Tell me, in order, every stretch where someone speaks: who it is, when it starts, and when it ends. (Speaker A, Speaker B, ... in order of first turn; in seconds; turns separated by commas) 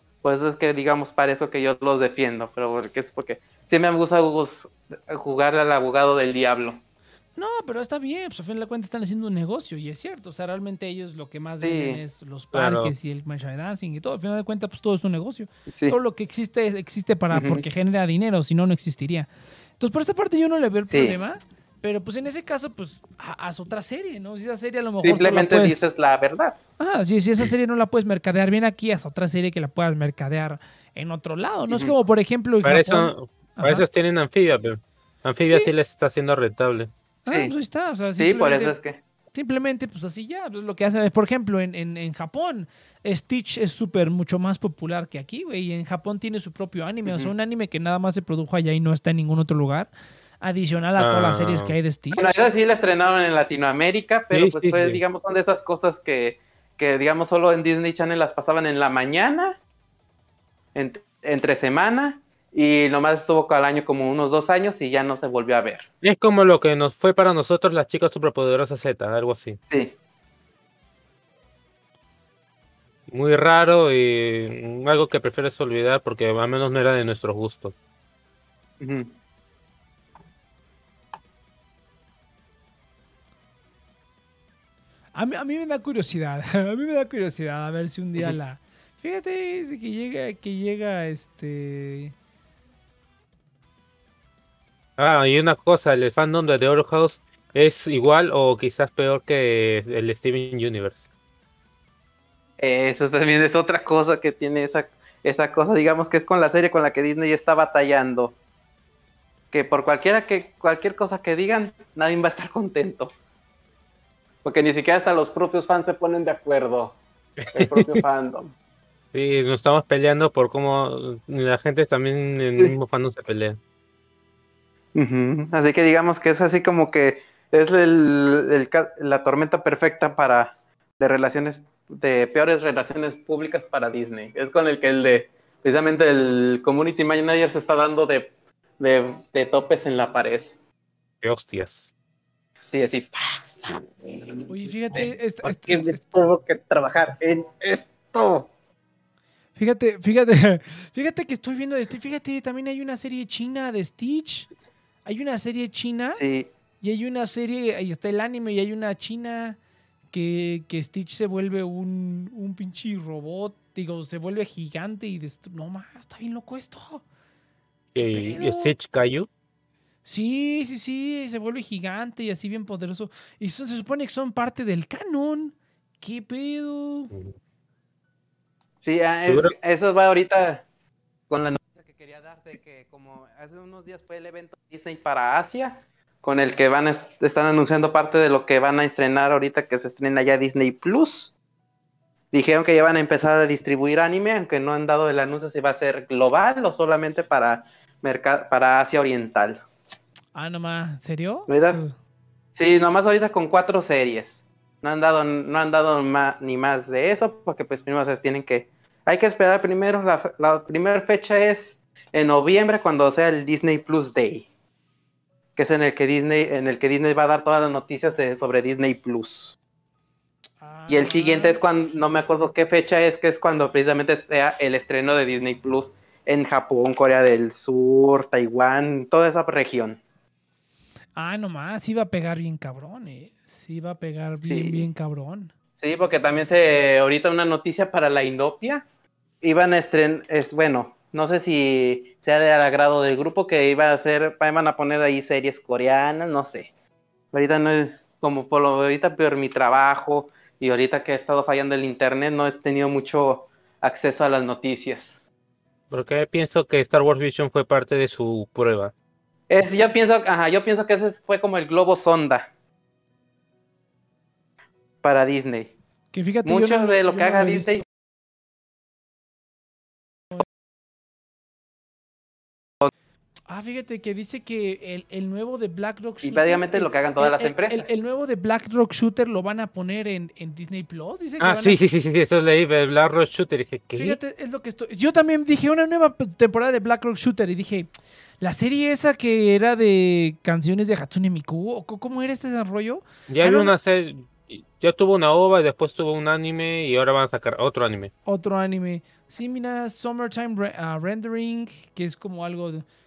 Speaker A: 0.2-6.8, Speaker B: 7.4-25.9, Speaker A: 11.6-12.0, Speaker C: 12.5-12.9, Speaker A: 17.3-17.6, Speaker A: 20.9-21.2, Speaker A: 25.0-26.6, Speaker B: 26.8-33.8, Speaker C: 32.6-36.9, Speaker B: 37.2-38.7, Speaker A: 37.3-37.5, Speaker A: 38.2-39.0, Speaker B: 39.3-49.9, Speaker A: 47.1-47.3, Speaker B: 50.4-52.4, Speaker C: 51.0-51.8, Speaker A: 52.1-59.6, Speaker C: 54.3-55.0, Speaker A: 60.7-65.8, Speaker C: 66.0-69.6, Speaker A: 69.7-70.0, Speaker C: 73.1-77.7, Speaker A: 78.8-79.1, Speaker B: 85.1-92.1, Speaker C: 95.0-101.1, Speaker A: 102.6-108.4, Speaker A: 109.5-113.1, Speaker A: 114.4-117.0, Speaker A: 117.5-118.5, Speaker C: 119.1-123.6, Speaker A: 124.9-140.5, Speaker C: 141.2-141.9, Speaker A: 142.6-148.5, Speaker B: 144.5-146.0, Speaker B: 149.6-154.5, Speaker B: 155.0-156.2, Speaker A: 156.1-156.5, Speaker B: 156.8-159.6, Speaker B: 160.1-167.0, Speaker C: 167.9-169.3, Speaker B: 168.0-168.7, Speaker B: 170.0-177.1, Speaker A: 178.8-180.6, Speaker C: 179.3-179.5, Speaker A: 181.3-191.3, Speaker A: 192.3-199.6, Speaker B: 200.3-201.9, Speaker A: 201.5-201.8, Speaker A: 202.5-214.5, Speaker A: 215.6-219.6, Speaker B: 220.6-221.6, Speaker A: 220.9-230.0, Speaker B: 231.2-235.5, Speaker A: 234.4-234.9, Speaker A: 235.8-238.8, Speaker A: 239.4-246.7, Speaker A: 247.3-255.2, Speaker C: 255.9-258.9, Speaker A: 259.5-262.5, Speaker A: 265.0-265.7, Speaker B: 266.1-267.8, Speaker A: 266.4-267.8, Speaker B: 273.5-281.8, Speaker A: 276.2-277.9, Speaker C: 281.4-284.2, Speaker B: 283.9-287.9, Speaker B: 288.4-293.7, Speaker C: 293.3-298.1, Speaker B: 298.2-302.8